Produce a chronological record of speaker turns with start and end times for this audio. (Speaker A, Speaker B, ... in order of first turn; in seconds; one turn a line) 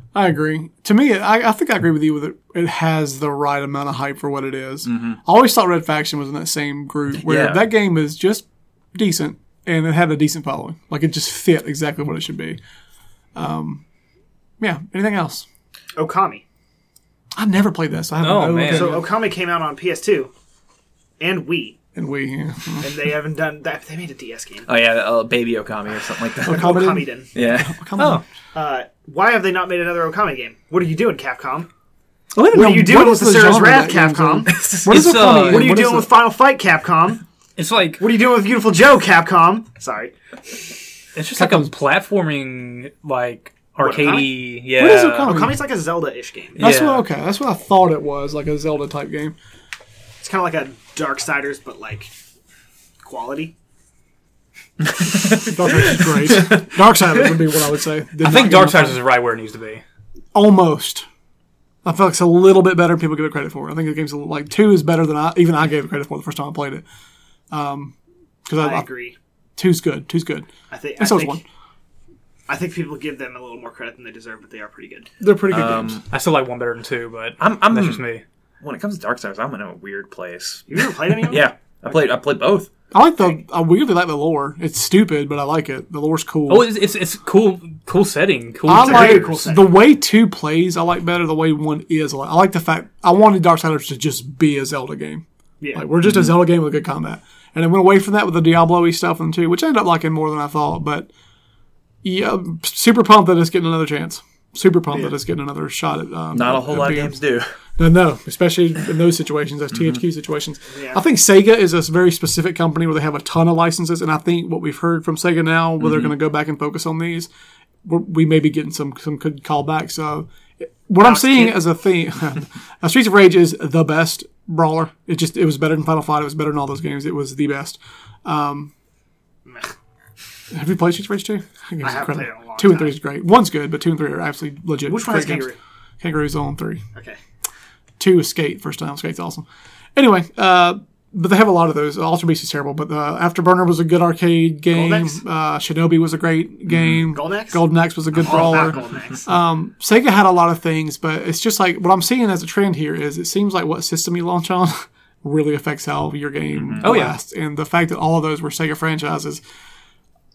Speaker A: 0.1-12.6
Speaker B: 4.9-5.2
Speaker B: 7.2-7.7
Speaker A: 13.3-13.8
Speaker A: 14.6-15.5
Speaker C: 16.0-16.4
Speaker A: 17.4-19.1
Speaker D: 18.2-19.0
Speaker C: 18.7-20.3
Speaker C: 21.2-21.8
Speaker A: 21.9-22.9
Speaker C: 22.8-24.7
Speaker B: 24.7-26.8
Speaker A: 26.4-28.2
Speaker C: 26.5-27.3
Speaker B: 27.3-27.8
Speaker D: 28.0-28.2
Speaker C: 28.5-31.7
Speaker A: 32.4-36.2
Speaker C: 32.5-37.2
Speaker D: 34.9-35.8
Speaker D: 37.6-38.0
Speaker C: 38.0-40.1
Speaker D: 41.1-45.5
Speaker A: 41.4-41.7
Speaker C: 43.8-44.4
Speaker A: 44.8-45.6
Speaker C: 45.2-46.6
Speaker D: 46.6-47.1
Speaker A: 46.6-49.4
Speaker C: 50.2-52.1
Speaker C: 53.0-53.5
Speaker B: 55.0-56.6
Speaker A: 55.4-59.0
Speaker D: 58.2-59.8
Speaker A: 60.3-61.1
Speaker A: 61.8-66.8
Speaker A: 67.5-68.9
Speaker C: 68.6-69.2
Speaker A: 69.6-71.4
Speaker C: 70.7-71.4
Speaker C: 72.5-75.1
Speaker A: 75.2-76.0
Speaker B: 75.5-76.0
Speaker D: 76.1-78.2
Speaker B: 77.4-78.0
Speaker B: 78.6-82.7
Speaker C: 80.7-81.5
Speaker A: 82.9-86.7
Speaker D: 86.5-89.4
Speaker A: 88.7-101.1
Speaker C: 88.7-89.8
Speaker C: 95.6-95.9
Speaker B: 96.0-96.3
Speaker A: 102.0-107.2
Speaker B: 106.3-107.5
Speaker A: 107.8-117.3
Speaker C: 110.7-111.0
Speaker B: 115.8-116.1
Speaker A: 117.8-128.7
Speaker C: 121.0-121.6
Speaker C: 129.5-129.7
Speaker A: 130.5-135.5
Speaker C: 131.8-132.9
Speaker C: 134.9-135.6
Speaker A: 136.0-136.8
Speaker A: 138.0-139.4
Speaker A: 140.0-159.4
Speaker C: 144.7-145.2
Speaker B: 146.7-147.0
Speaker C: 147.1-149.3
Speaker B: 156.6-156.9
Speaker D: 156.8-157.2